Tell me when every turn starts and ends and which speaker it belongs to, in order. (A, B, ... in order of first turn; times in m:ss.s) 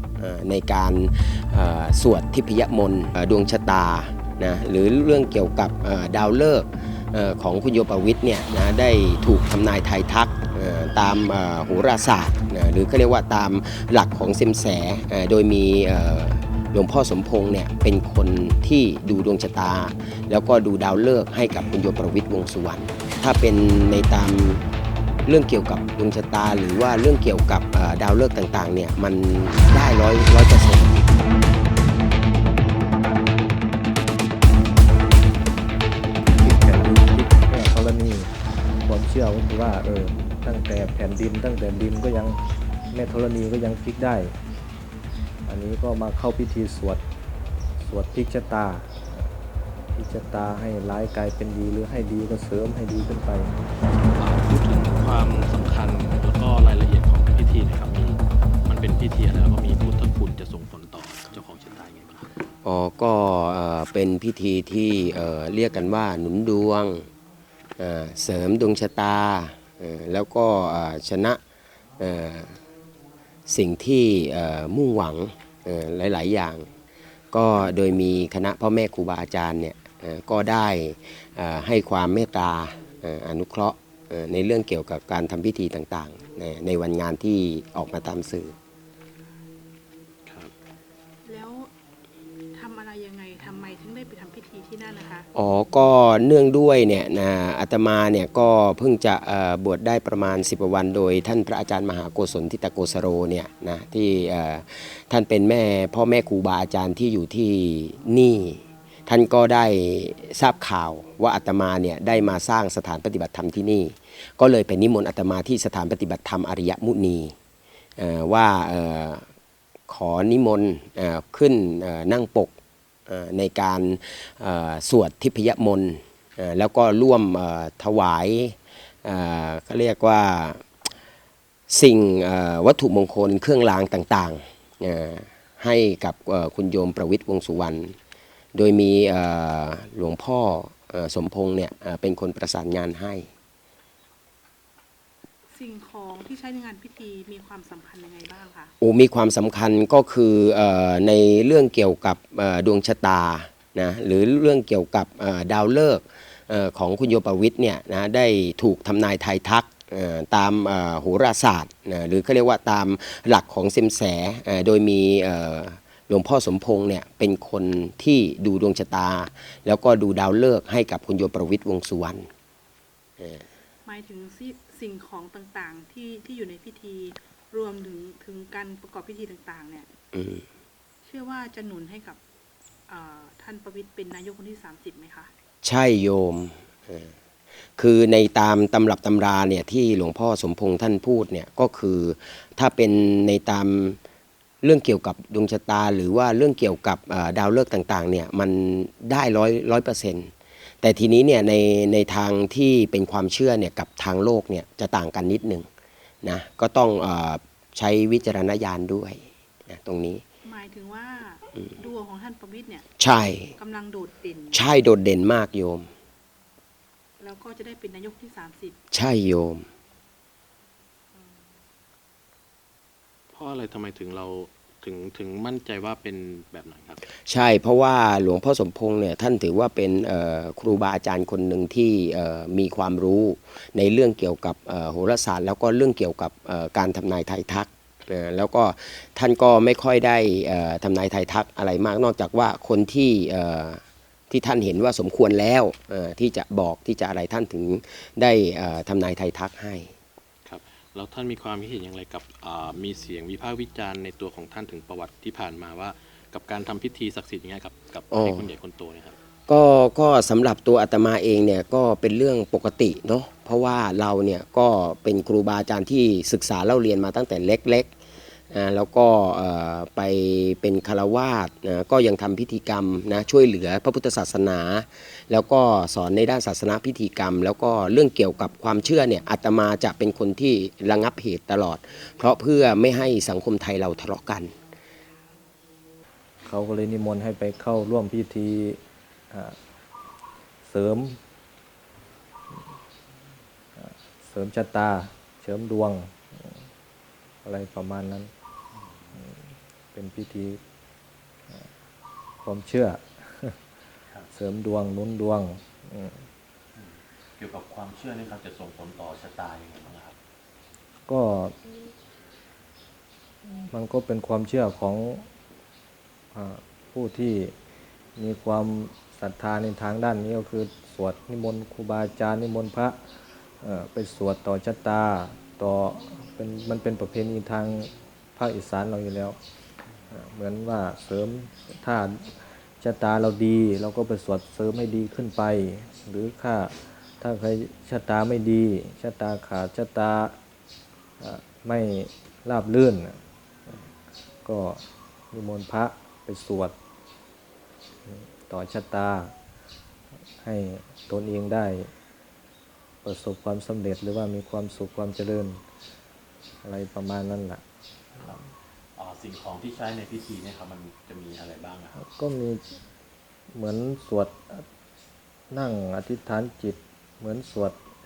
0:00.2-0:24.6 A
0:25.2-0:31.2 A
0:36.3-0:38.3 B
0:38.8-0:42.4 B
0:42.9-0:44.3 B
0:45.5-0:47.0 B
0:47.8-0:49.3 B
0:49.9-0:53.5 B
0:54.2-1:02.3 C
1:02.6-1:07.1 A
1:07.8-1:11.4 A
1:12.0-1:12.6 A
1:13.5-1:16.7 A
1:17.3-1:28.5 A
1:30.3-1:30.5 C
1:31.2-1:31.7 D
1:32.5-1:35.3 D
1:35.3-1:57.3 A
1:58.0-1:59.2 A
1:59.9-2:02.5 A
2:03.1-2:10.6 A
2:11.7-2:18.0 A
2:18.5-2:23.3 A
2:25.5-2:28.7 D
2:28.8-2:52.3 A
2:53.2-2:53.5 A
2:53.8-2:59.9 D
3:00.1-3:00.4 A
3:01.0-3:02.2 D
3:02.9-3:05.3 D
3:05.6-3:07.1 A
3:07.8-3:14.0 A
3:14.6-3:25.7 A
3:26.2-3:30.2 A
3:30.4-3:32.8 D
3:33.0-3:33.5 A
3:33.6-3:34.6 D
3:34.5-3:35.9 A
3:37.2-3:38.8 D
3:38.9-3:39.7 A
3:41.1-3:41.4 D
3:43.3-3:47.0 C
3:47.2-4:09.9 A
4:10.4-4:19.2 C
4:18.1-4:18.5 A
4:19.5-4:27.9 A
4:28.5-4:44.5 A
4:46.4-4:49.6 B
4:50.6-4:51.2 B
4:53.8-4:56.7 B
4:57.4-4:58.3 B
4:59.9-5:00.6 B
5:02.4-5:03.6 B
5:04.3-5:06.3 B
5:06.7-5:10.2 C
5:11.1-5:11.6 B
5:13.5-5:15.3 B
5:16.3-5:17.5 B
5:18.2-5:23.0 B
5:23.6-5:29.4 B
5:30.1-5:40.4 B
5:41.2-5:43.8 B
5:44.4-5:46.7 B
5:48.1-5:49.3 B
5:50.4-5:51.9 B
5:53.0-5:55.6 B
5:56.6-5:57.6 B
5:59.0-6:02.0 C
6:02.0-6:02.7 B
6:03.5-6:04.6 B
6:05.5-6:07.8 B